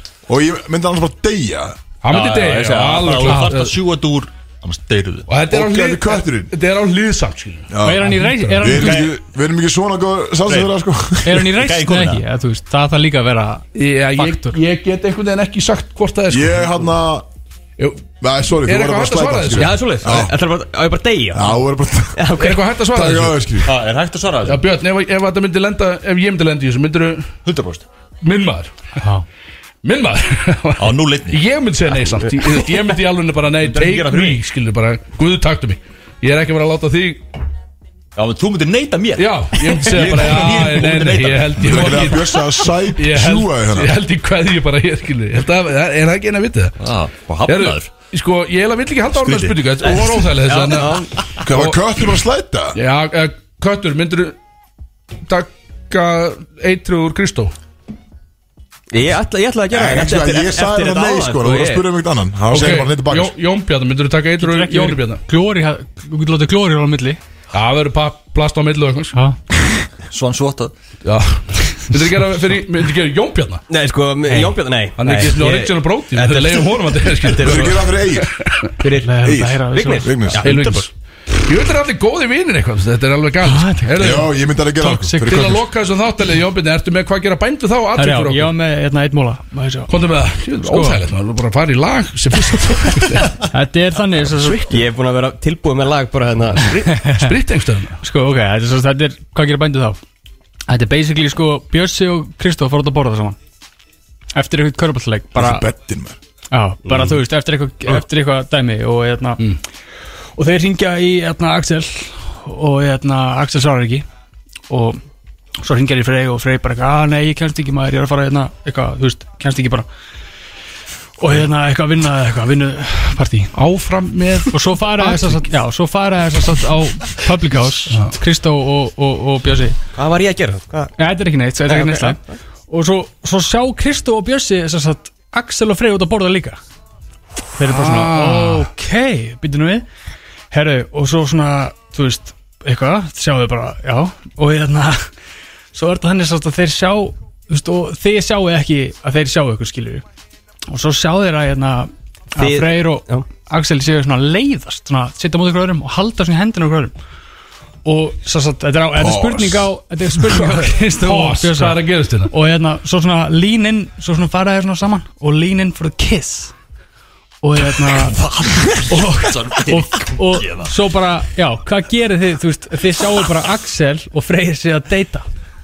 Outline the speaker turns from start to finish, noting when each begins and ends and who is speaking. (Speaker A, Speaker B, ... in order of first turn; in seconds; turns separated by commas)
Speaker A: 0.3-1.7, Speaker B: 2.0-3.7, Speaker C: 2.1-5.3, Speaker B: 5.3-8.7, Speaker A: 5.5-6.5, Speaker A: 7.7-11.5, Speaker D: 7.8-9.1, Speaker C: 8.7-9.1, Speaker C: 10.5-10.7, Speaker D: 11.2-13.6, Speaker C: 11.4-12.2, Speaker B: 13.7-16.8, Speaker D: 14.2-14.6, Speaker A: 16.3-17.2, Speaker B: 17.8-18.0, Speaker A: 18.2-20.4, Speaker B: 18.6-19.7, Speaker E: 19.6-21.6, Speaker A: 21.3-22.3, Speaker E: 22.1-22.6, Speaker B: 22.4-23.4, Speaker A: 22.9-23.7, Speaker C: 23.6-24.6, Speaker B: 24.4-27.3, Speaker C: 27.4-27.8, Speaker B: 28.2-28.8, Speaker B: 29.8-37.2, Speaker C: 30.8-31.4, Speaker C: 33.6-34.4, Speaker C: 38.1-42.0, Speaker B: 39.1-46.7, Speaker A: 41.6-43.9, Speaker C: 46.8-47.9, Speaker B: 47.5-51.8, Speaker C: 49.1-49.9, Speaker E: 49.8-51.1, Speaker A: 51.4-52.8, Speaker B: 52.7-54.4, Speaker B: 55.3-57.5, Speaker E: 58.9-61.8, Speaker A: 59.7-63.3, Speaker B: 62.5-65.2, Speaker D: 64.4-67.2, Speaker B: 67.5-69.2, Speaker C: 70.1-70.7, Speaker B: 71.0-73.6, Speaker E: 73.7-77.8, Speaker B: 74.3-78.7, Speaker A: 77.4-78.3, Speaker E: 78.8-80.9, Speaker D: 79.0-80.3, Speaker A: 79.2-80.5, Speaker B: 80.4-80.9, Speaker B: 81.4-84.3, Speaker D: 83.4-84.0, Speaker A: 84.0-85.6, Speaker D: 84.8-85.5, Speaker B: 85.2-88.5, Speaker D: 88.0-89.9, Speaker B: 89.9-93.4, Speaker D: 90.6-91.0, Speaker D: 93.5-94.7, Speaker B: 94.4-94.7, Speaker E: 94.7-96.7, Speaker B: 96.6-98.0, Speaker D: 96.9-97.3, Speaker D: 98.0-100.0, Speaker D: 100.7-103.4, Speaker D: 104.3-105.7, Speaker A: 105.3-106.2, Speaker D: 106.5-109.4, Speaker E: 106.8-107.2, Speaker D: 110.4-114.0, Speaker D: 114.7-115.0, Speaker D: 115.6-119.9, Speaker D: 121.2-123.5, Speaker B: 123.5-125.5, Speaker D: 124.5-129.8, Speaker B: 127.9-128.1, Speaker E: 129.9-130.9, Speaker D: 131.0-136.6, Speaker E: 131.6-132.2, Speaker D: 137.6-139.8, Speaker B: 137.6-138.7, Speaker D: 140.5-145.1, Speaker D: 145.7-150.0, Speaker D: 150.7-156.9, Speaker E: 152.4-153.3, Speaker D: 157.8-166.5, Speaker A: 158.9-159.7, Speaker B: 160.4-162.3, Speaker D: 167.4-175.2, Speaker C: 167.8-170.7